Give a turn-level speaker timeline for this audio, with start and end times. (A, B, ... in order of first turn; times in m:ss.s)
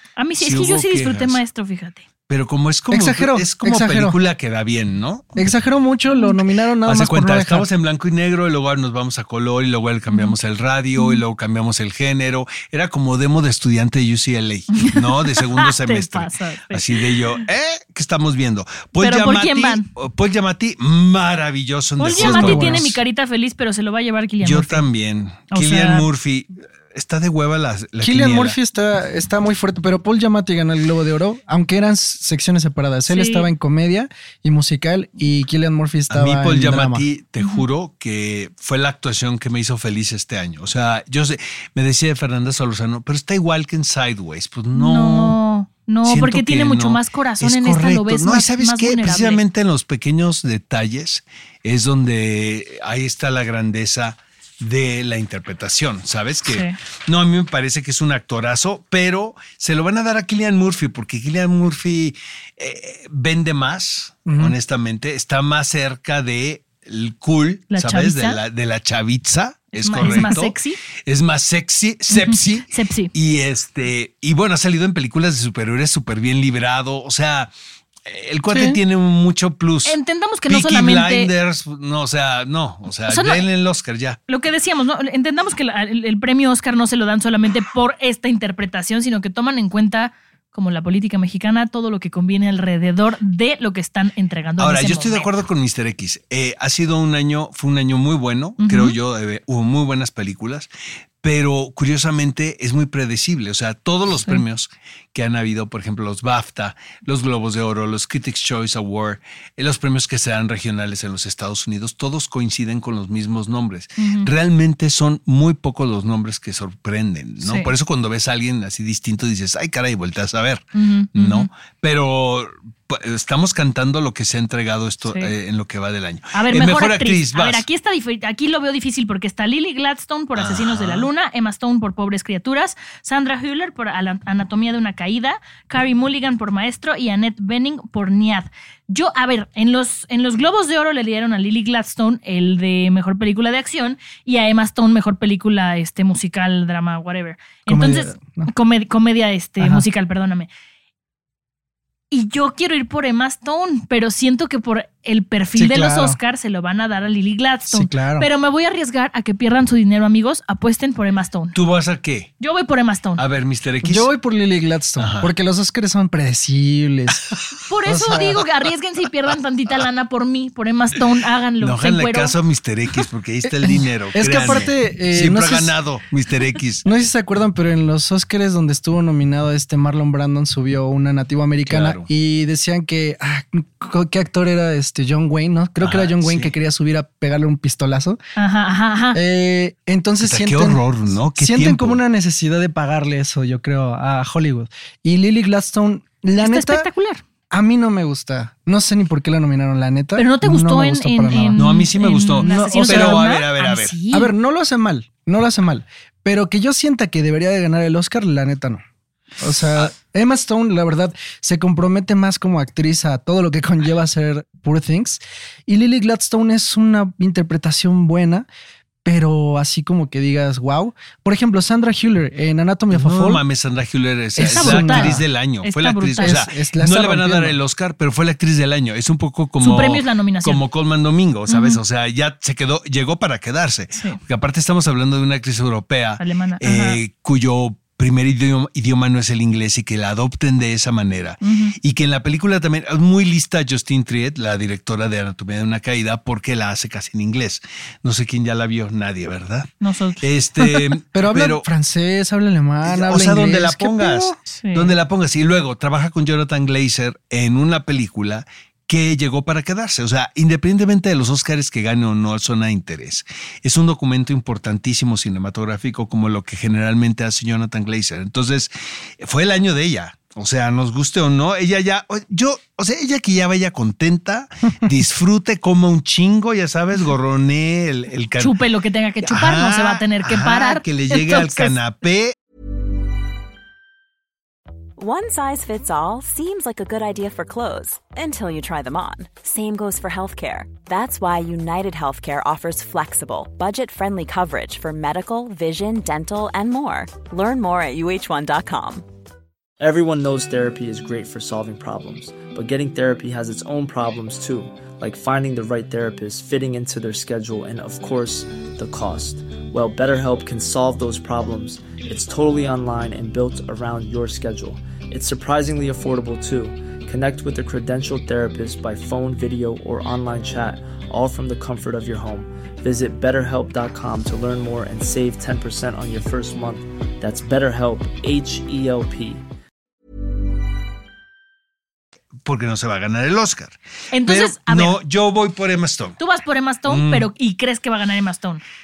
0:00.2-0:02.0 A
0:00.4-0:01.4 B
0:02.3-0:05.4 B
0:02.9-0:04.2 C
0:05.4-0:07.7 C
0:06.8-0:23.0 B
0:10.1-0:10.3 A
0:11.0-0:11.2 A
0:14.7-0:17.4 A
0:19.0-0:19.9 A
0:22.0-0:24.8 A
0:22.2-0:22.9 C
0:24.4-0:28.6 B
0:25.5-0:26.0 A
0:28.0-0:37.0 C
0:33.1-0:33.5 A
0:36.1-0:45.4 B
0:44.7-0:49.4 A
0:46.0-1:17.5 B
0:56.5-0:56.8 A
1:04.2-1:04.5 C
1:07.7-1:08.4 A
1:09.8-1:10.8 A
1:10.0-1:10.3 C
1:12.1-1:13.1 A
1:18.0-1:24.2 B
1:19.8-1:21.3 A
1:23.1-1:23.4 A
1:24.3-1:35.3 A
1:34.6-1:40.7 B
1:38.6-1:39.0 A
1:41.2-2:07.6 B
1:54.0-1:54.3 A
1:57.4-1:57.7 A
2:00.7-2:01.5 A
2:05.0-2:05.3 A
2:06.3-2:30.5 A
2:10.4-2:11.1 B
2:27.7-2:28.5 C
2:29.6-2:29.8 C
2:32.1-2:41.6 A
2:35.6-2:36.2 C
2:37.7-2:38.3 C
2:41.5-2:42.3 B
2:42.4-2:43.2 A
2:43.2-2:44.1 B
2:43.8-2:47.4 C
2:45.0-2:45.3 B
2:47.6-2:52.4 A
2:47.9-2:48.4 C
2:51.6-2:56.8 B
2:53.6-2:55.7 C
2:56.8-3:08.2 C
3:01.7-3:02.1 B
3:05.8-3:06.5 B
3:08.4-3:09.2 A
3:09.1-3:10.8 C
3:10.2-3:12.0 B
3:11.3-3:16.9 C
3:16.4-3:17.2 A
3:17.5-3:21.9 C
3:20.2-3:24.3 A
3:21.6-3:23.9 B
3:22.4-3:23.2 C
3:24.1-3:28.8 C
3:29.4-3:38.5 C
3:39.0-3:43.4 C
3:42.9-4:09.7 B
3:44.4-3:45.2 C
3:44.5-3:46.4 A
3:46.2-3:47.6 C
3:49.6-3:50.6 A
3:51.5-3:51.8 A
3:56.2-3:57.0 A
4:01.4-4:01.7 A
4:09.8-4:10.2 A
4:10.2-4:11.7 B
4:10.7-4:14.4 C
4:12.8-4:38.6 B
4:14.5-4:14.9 A
4:38.4-4:41.8 A
4:39.2-4:42.3 B
4:45.0-4:59.0 D
4:59.8-5:29.4 E
5:32.4-5:36.2 B
5:34.1-5:34.9 A
5:36.2-5:38.6 A
5:36.9-5:37.3 B